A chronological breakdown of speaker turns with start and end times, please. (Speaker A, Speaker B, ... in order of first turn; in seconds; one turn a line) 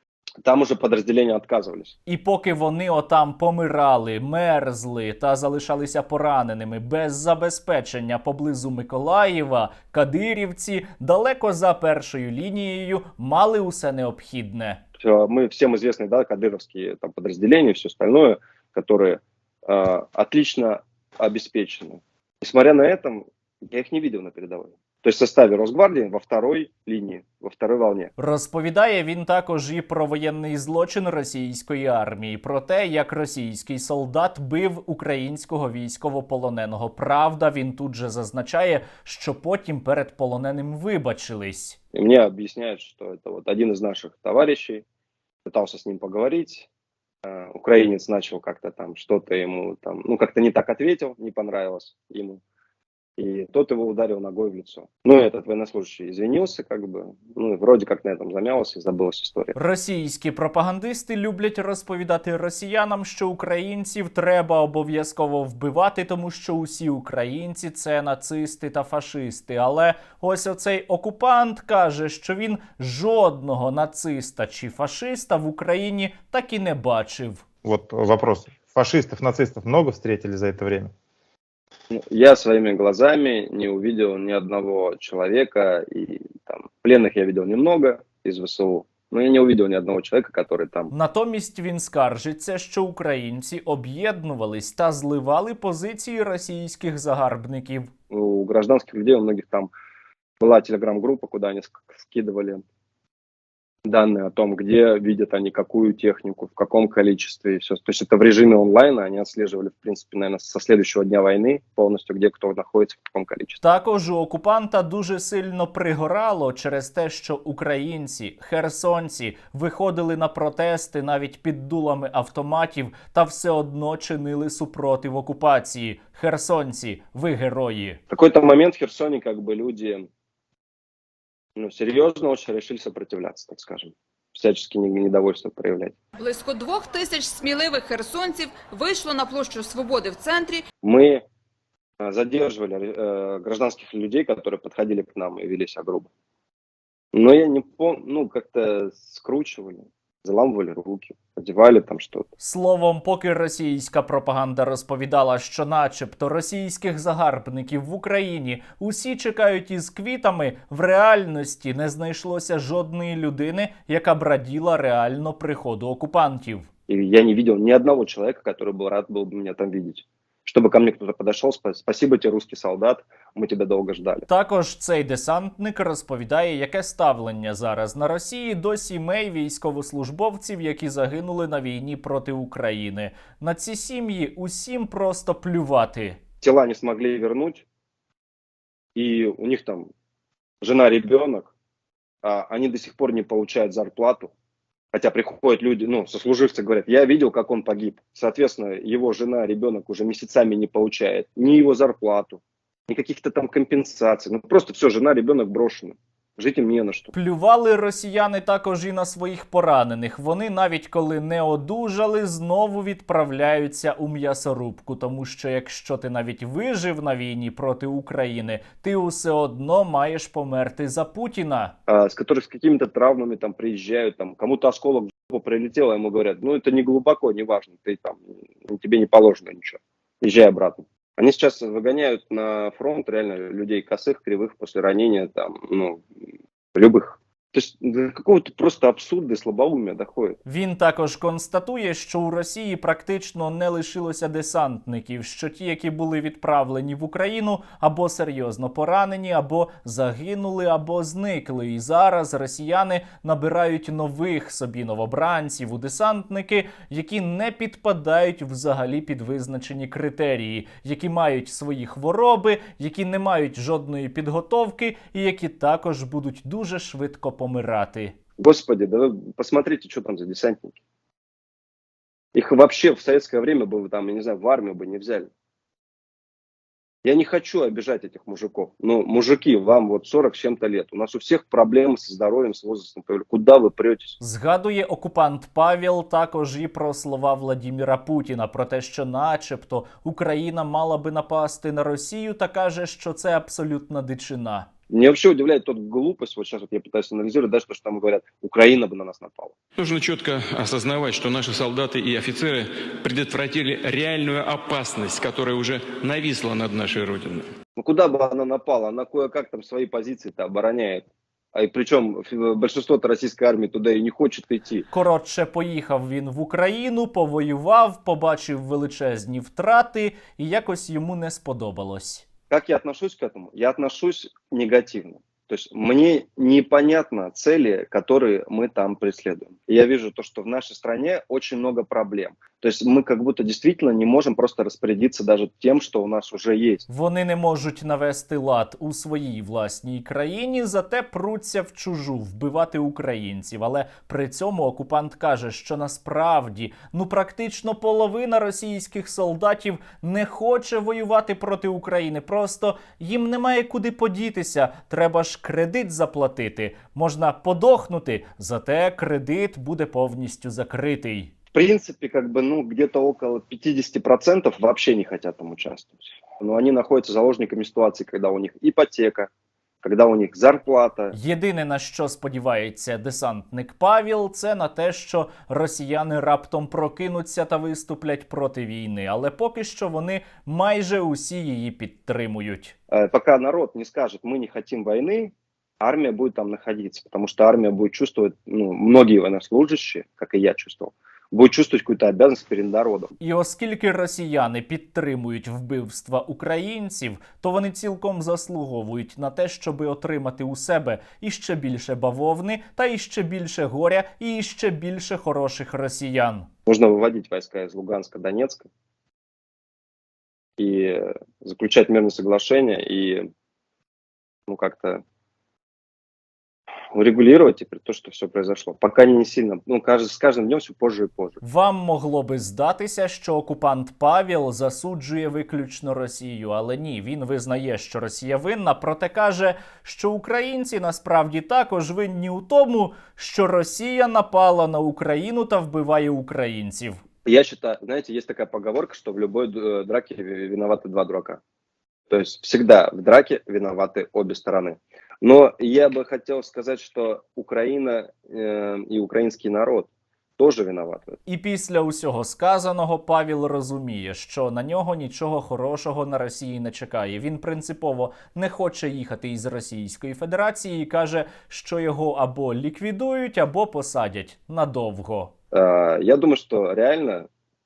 Speaker A: 0.4-1.9
Speaker B: 2.1-14.8
Speaker A: 15.0-28.1
Speaker B: 28.2-41.8
Speaker A: 41.9-44.8
Speaker A: 45.5-46.7
Speaker A: 47.2-52.4
Speaker A: 53.2-59.5
Speaker B: 59.5-77.4
Speaker C: 77.6-80.9
Speaker A: 81.9-90.9
Speaker B: 90.9-97.9
Speaker A: 98.1-99.7
Speaker A: 100.4-102.6
Speaker A: 103.9-113.6
Speaker B: 113.6-128.0
Speaker A: 128.1-130.1
Speaker A: 131.6-135.9
Speaker D: 136.2-140.6
Speaker A: 140.8-141.2
Speaker A: 142.0-146.1
Speaker A: 147.1-152.3
Speaker B: 152.4-166.7
Speaker A: 166.9-174.3
Speaker B: 174.3-186.2
Speaker A: 186.4-187.6
Speaker A: 188.9-189.9
Speaker A: 190.6-191.5
Speaker A: 192.2-194.3
Speaker A: 194.9-207.1
Speaker B: 207.1-221.7
Speaker A: 221.9-236.0
Speaker A: 236.8-240.4
Speaker B: 240.4-268.1
Speaker A: 268.4-270.8
Speaker A: 272.4-275.3
Speaker A: 277.0-284.2
Speaker B: 284.2-294.7
Speaker A: 294.9-299.5
Speaker E: 299.8-306.2
Speaker E: 306.8-307.4
Speaker A: 307.8-311.0
Speaker A: 311.5-314.9
Speaker B: 314.9-322.2
Speaker A: 322.5-336.9
Speaker B: 336.9-361.3
Speaker A: 361.5-369.3
Speaker A: 369.8-371.1
Speaker B: 371.1-382.7
Speaker A: 382.9-393.1
Speaker B: 393.2-406.5
Speaker A: 406.7-408.6
Speaker A: 410.6-413.2
Speaker A: 414.5-415.0
Speaker A: 416.9-421.4
Speaker B: 421.4-437.0
Speaker A: 437.2-441.4
Speaker A: 442.1-451.2
Speaker B: 451.3-465.3
Speaker A: 465.5-467.3